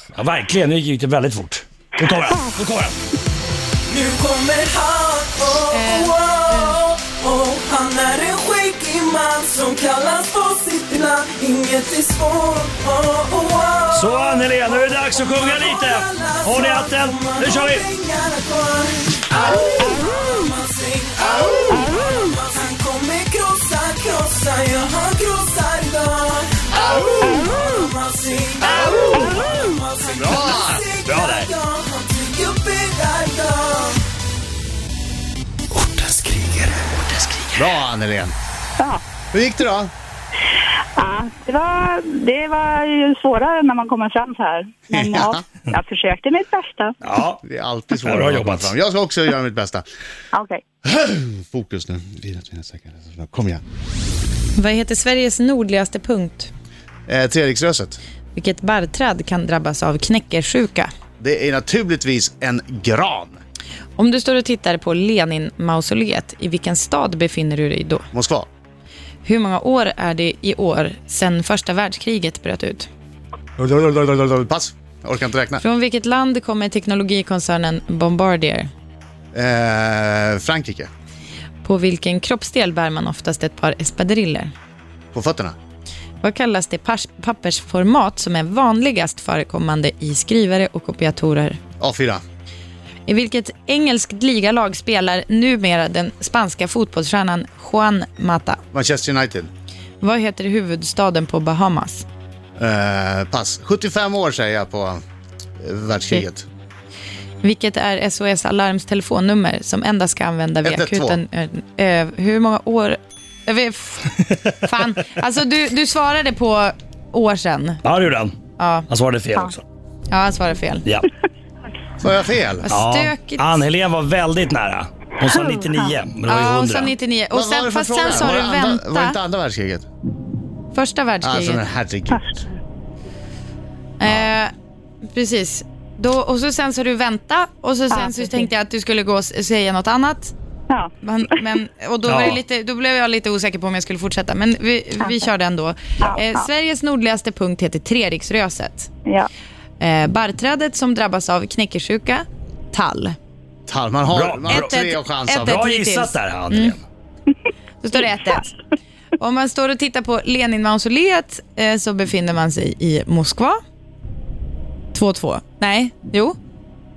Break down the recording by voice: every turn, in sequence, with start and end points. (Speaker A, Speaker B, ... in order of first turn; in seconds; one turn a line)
Speaker A: 0.1-3.0
Speaker B: 3.9-34.0
Speaker C: 5.7-6.8
Speaker A: 13.9-17.9
Speaker D: 29.1-29.4
Speaker E: 30.1-30.8
Speaker A: 30.4-31.5
Speaker A: 35.8-37.5
Speaker E: 37.5-38.3
Speaker E: 39.3-39.9
Speaker D: 41.0-47.0
Speaker E: 44.9-45.4
Speaker A: 47.0-47.4
Speaker E: 47.4-49.8
Speaker A: 48.0-48.7
Speaker D: 50.3-50.6
Speaker E: 50.8-53.6
Speaker C: 54.5-56.5
Speaker E: 57.1-58.0
Speaker C: 58.3-60.9
Speaker E: 61.2-63.4
Speaker C: 64.0-68.0
Speaker E: 68.1-68.5
Speaker C: 69.2-72.9
Speaker E: 73.6-75.6
Speaker C: 75.6-78.7
Speaker E: 79.3-80.9
Speaker C: 81.6-84.5
Speaker E: 85.1-85.5
Speaker C: 86.2-91.6
Speaker E: 91.8-92.2
Speaker C: 93.0-98.6
Speaker E: 98.7-99.5
Speaker C: 100.0-102.0
Speaker E: 102.6-105.0
Speaker E: 105.6-106.5
Speaker C: 107.4-117.8
Speaker E: 110.6-111.2
Speaker A: 117.8-119.6
Speaker C: 118.6-118.9
Speaker C: 120.1-120.8
Speaker E: 122.0-122.7
Speaker C: 122.6-123.6
Speaker A: 122.7-126.9
Speaker D: 125.2-125.9
Speaker C: 126.3-129.2
Speaker E: 127.3-129.9
Speaker C: 130.7-131.6
Speaker E: 131.2-132.4
Speaker C: 134.0-134.5
Speaker C: 135.1-140.3
Speaker D: 137.9-138.5
Speaker C: 141.0-148.9
Speaker A: 142.1-142.4
Speaker D: 145.0-145.3
Speaker D: 146.0-146.4
Speaker C: 149.8-153.2
Speaker E: 153.7-155.6
Speaker A: 154.1-154.8
Speaker C: 154.5-156.8
Speaker A: 155.4-156.8
Speaker C: 157.8-158.5
Speaker C: 159.2-163.6
Speaker C: 164.9-166.4